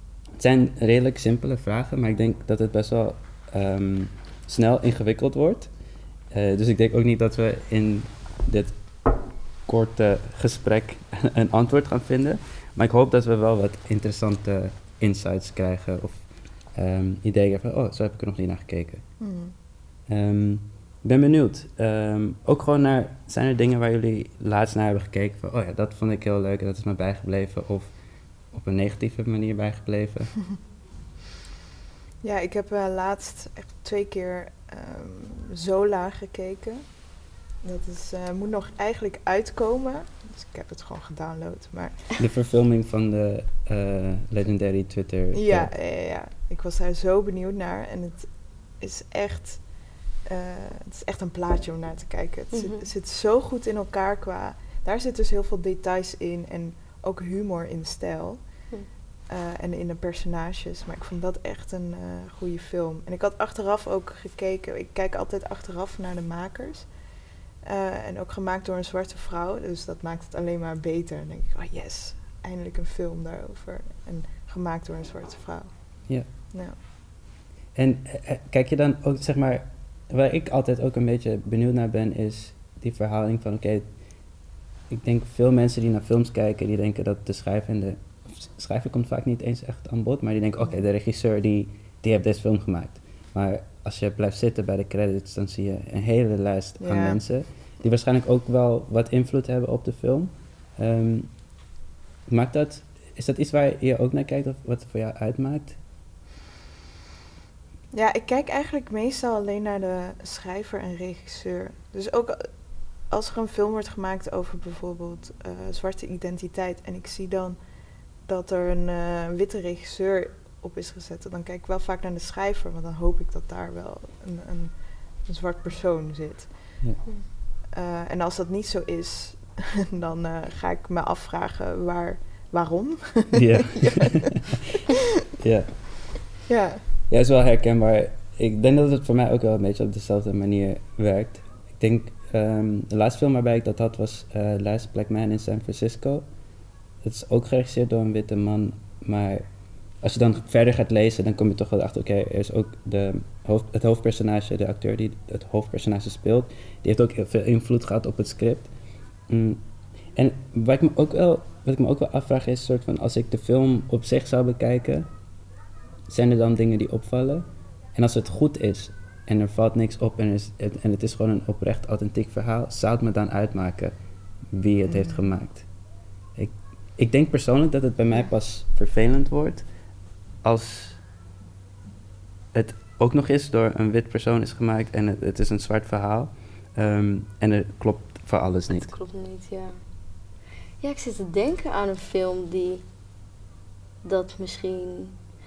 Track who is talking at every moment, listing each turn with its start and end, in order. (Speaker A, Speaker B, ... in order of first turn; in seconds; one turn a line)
Speaker A: 0.4-5.7
Speaker A: 6.3-8.7
Speaker A: 9.7-19.0
Speaker B: 19.2-19.5
Speaker A: 20.1-27.9
Speaker A: 28.5-30.4
Speaker B: 32.2-36.8
Speaker B: 37.6-42.1
Speaker A: 42.2-45.7
Speaker B: 45.3-49.6
Speaker B: 50.2-58.4
Speaker C: 52.5-52.9
Speaker B: 59.3-66.9
Speaker B: 67.6-75.7
Speaker B: 76.5-76.8
Speaker A: 77.7-83.8
Speaker A: 84.9-101.3
Speaker B: 96.8-97.2
Speaker A: 102.3-105.8
Speaker B: 107.9-112.5
Speaker B: 113.1-117.6
Speaker B: 118.2-124.7
Speaker B: 125.2-126.5
Speaker B: 127.7-134.4
Speaker A: 133.3-134.5
Speaker A: 135.4-136.1
Speaker B: 136.5-136.8
Speaker A: 137.1-146.2
Speaker A: 147.0-149.4
Speaker A: 150.0-158.7
Speaker A: 159.3-159.6
Speaker A: 160.2-165.1
Speaker A: 166.1-167.4
Speaker A: 167.9-173.9
Speaker A: 174.5-175.7
Speaker B: 174.9-175.2
Speaker A: 176.3-179.6
Speaker A: 180.4-181.0
Speaker A: 182.5-188.9
Speaker C: 188.7-189.8
Speaker C: 190.8-192.8
Speaker C: 194.0-195.2